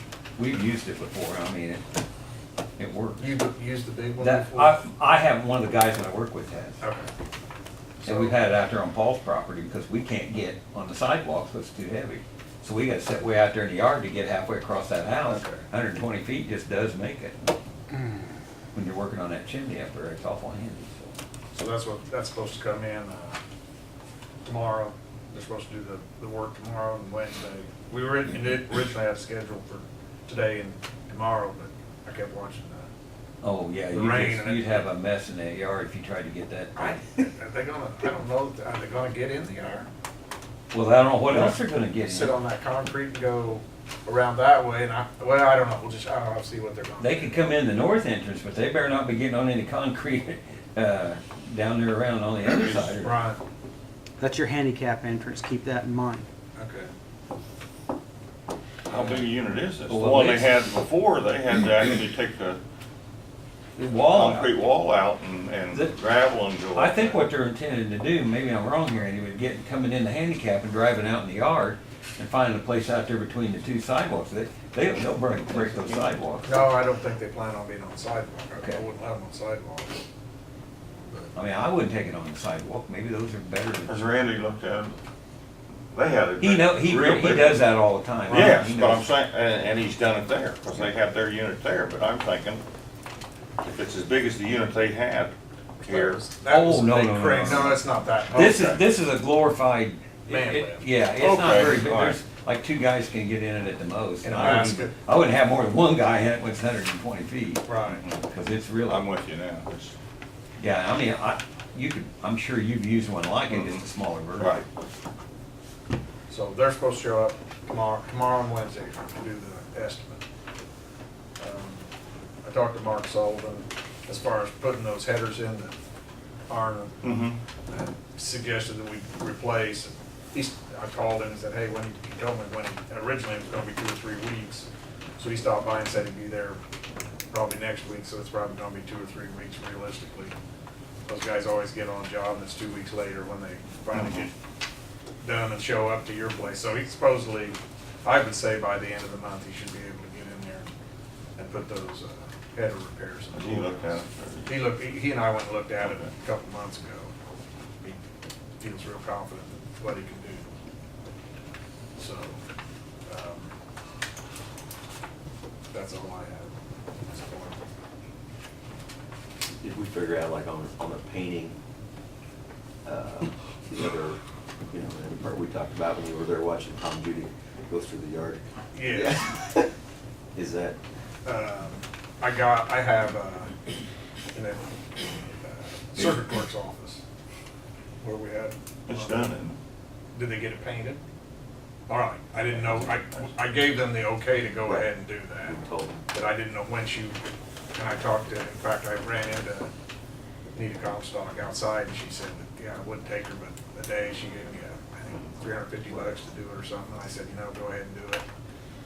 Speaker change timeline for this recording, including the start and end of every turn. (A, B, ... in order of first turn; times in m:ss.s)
0:00.4-0:01.8 A
0:02.8-0:03.3 A
0:03.2-0:04.8 B
0:04.2-0:06.8 A
0:06.8-0:07.1 B
0:08.0-0:08.4 B
0:08.0-0:17.5 A
0:15.2-0:15.6 B
0:18.7-0:21.1 A
0:21.5-0:23.4 B
0:24.4-0:32.9 B
0:33.4-0:37.3 A
0:33.9-0:34.8 B
0:36.8-0:39.9 B
0:40.7-0:42.4 A
0:41.3-0:47.4 B
0:47.0-0:53.2 A
0:52.5-0:53.0 C
0:53.0-0:53.4 B
0:54.2-0:56.2 D
0:56.6-0:56.9 B
0:58.9-1:02.6 C
0:58.9-0:59.2 A
0:59.9-1:00.5 A
1:03.8-1:04.5 A
1:04.1-1:07.2 C
1:06.7-1:16.6 A
1:16.4-1:20.0 B
1:21.3-1:24.0 A
1:23.8-1:24.9 C
1:25.9-1:27.7 C
1:26.4-1:29.0 A
1:28.3-1:32.6 C
1:28.3-1:28.6 B
1:33.6-1:36.2 C
1:35.8-1:38.8 B
1:36.4-1:47.7 A
1:38.5-1:38.8 C
1:40.3-1:40.9 B
1:41.1-1:42.2 C
1:44.2-1:45.0 B
1:47.6-1:48.0 B
1:47.9-1:48.2 C
1:48.2-1:49.0 A
1:48.8-1:49.9 C
1:50.6-1:54.6 A
1:53.5-1:53.8 C
1:54.4-1:54.6 C
1:56.3-2:00.2 B
2:01.4-2:01.9 B
2:02.4-2:05.8 B
2:06.5-2:07.1 B
2:07.0-2:07.4 C
2:07.7-2:14.7 B
2:15.2-2:16.6 B
2:17.3-2:20.3 B
2:21.1-2:24.3 B
2:23.9-2:24.2 C
2:25.2-2:30.7 B
2:31.4-2:37.1 B
2:33.3-2:34.6 C
2:38.6-2:40.5 B
2:42.0-2:42.4 B
2:43.1-2:43.5 B
2:45.7-2:47.6 B
2:49.5-2:51.5 E
2:52.8-2:59.7 E
2:58.7-2:59.3 B
3:00.3-3:00.8 E
3:01.2-3:03.5 B
3:04.3-3:07.0 B
3:08.0-3:09.3 B
3:08.9-3:09.6 C
3:10.1-3:11.0 B
3:11.9-3:15.6 B
3:14.6-3:16.0 E
3:16.1-3:19.7 B
3:20.5-3:28.2 B